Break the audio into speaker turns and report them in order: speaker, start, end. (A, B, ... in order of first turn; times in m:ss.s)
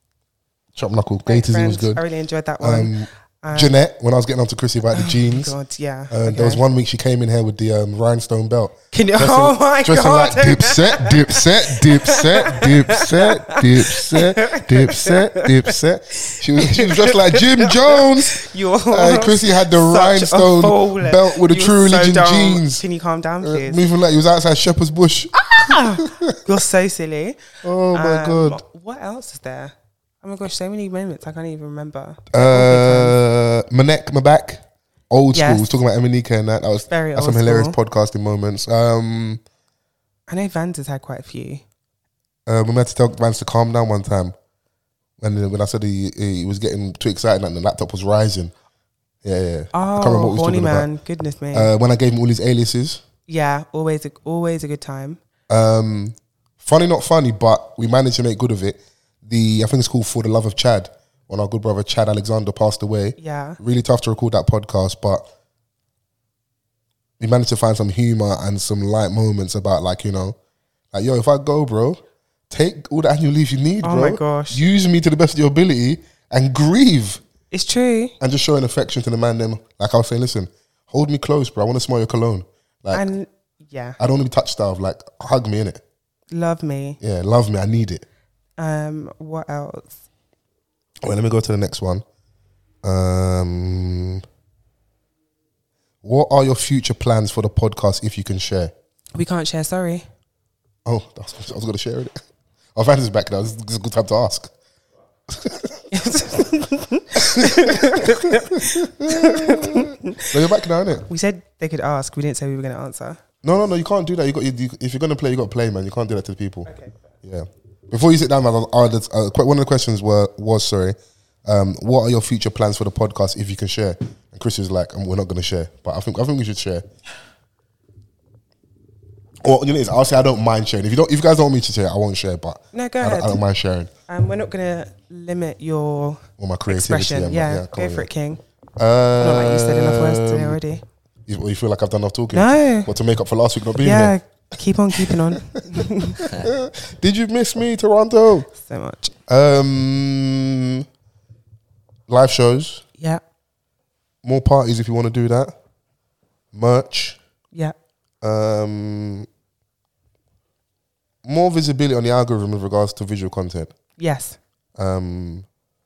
0:00.7-0:02.0 A
0:01.2-0:03.8 B
0:02.6-0:05.5 A
0:04.9-0:06.6 B
0:06.1-0:22.8 A
0:08.9-0:15.7 B
0:16.2-0:23.8 B
0:23.4-0:26.4 A
0:25.4-0:27.4 B
0:27.6-0:28.6 A
0:27.9-0:33.2 B
0:32.3-0:39.4 A
0:35.3-0:35.7 B
0:36.9-0:37.8 B
0:40.3-0:41.6 B
0:42.4-0:44.3 A
0:45.2-0:48.5 A
0:49.2-0:50.9 A
0:49.7-0:51.7 B
0:51.5-0:53.0 A
0:53.3-0:55.2 B
0:55.5-1:05.3 A
1:03.2-1:03.6 B
1:07.2-1:10.4 A
1:10.9-1:17.2 A
1:13.8-1:14.6 B
1:17.5-1:18.1 B
1:18.2-1:23.1 A
1:22.9-1:24.0 B
1:24.0-1:25.8 A
1:26.3-1:27.0 B
1:27.0-1:28.0 A
1:28.6-1:30.0 B
1:31.0-1:32.0 A
1:32.8-1:34.2 A
1:36.0-1:38.7 A
1:39.1-1:40.1 B
1:40.8-1:42.2 A
1:42.7-1:44.5 A
1:45.3-1:45.8 A
1:45.9-1:50.2 B
1:47.2-1:51.0 A
1:51.1-1:53.2 B
1:53.4-1:56.7 A
1:56.7-1:56.9 B
1:57.2-2:06.8 A
2:09.4-2:13.9 A
2:12.7-2:13.4 B
2:14.1-2:18.4 B
2:16.4-2:18.1 A
2:18.8-2:20.6 A
2:19.2-2:20.8 B
2:21.3-2:24.1 A
2:22.3-2:22.9 B
2:23.8-2:26.3 B
2:24.9-2:28.5 A
2:28.6-2:29.1 B
2:29.3-2:30.8 A
2:32.1-2:32.8 A
2:34.2-2:35.5 A
2:36.5-2:37.2 A
2:38.2-2:39.3 A
2:41.2-2:43.7 A
2:44.0-2:44.4 B
2:44.8-2:45.4 A